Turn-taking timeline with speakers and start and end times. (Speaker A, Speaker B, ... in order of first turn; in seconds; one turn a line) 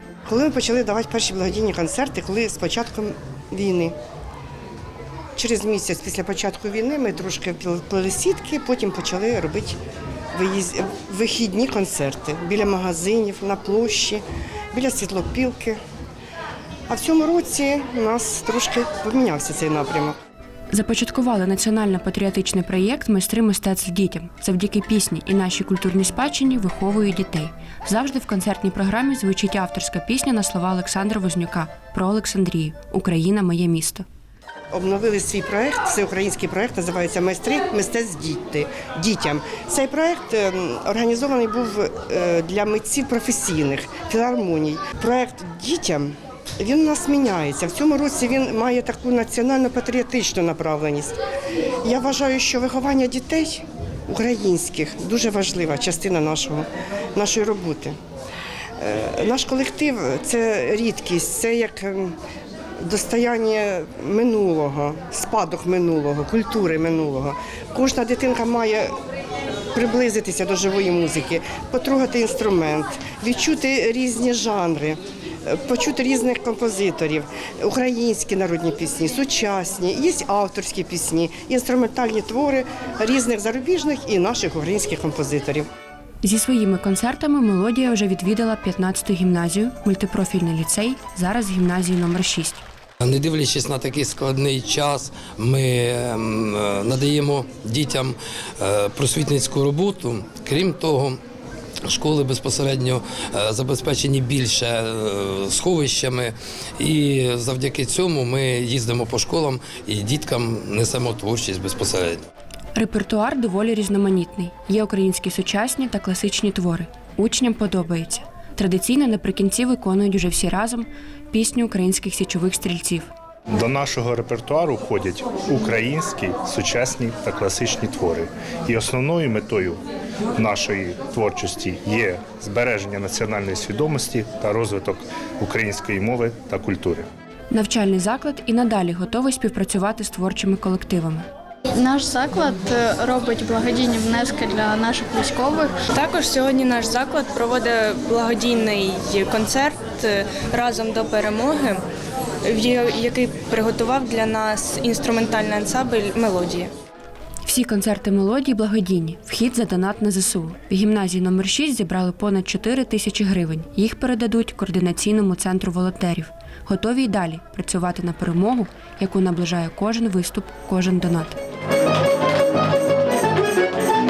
Speaker A: 0.3-4.0
Speaker A: 5.4-9.8
Speaker A: 10.3-15.8
Speaker A: 16.9-20.2
Speaker B: 20.7-34.0
Speaker A: 34.7-51.2
Speaker A: 51.8-58.0
Speaker A: 58.8-62.1
Speaker A: 62.8-69.0
Speaker A: 69.7-85.7
Speaker B: 86.2-92.6
Speaker C: 93.0-101.2
Speaker C: 101.9-112.2
Speaker B: 112.8-123.1
Speaker D: 123.5-129.8
Speaker D: 130.4-137.1
Speaker B: 137.5-141.3
Speaker E: 141.8-145.8
Speaker F: 145.9-151.8
Speaker F: 152.4-156.7
Speaker B: 157.4-171.4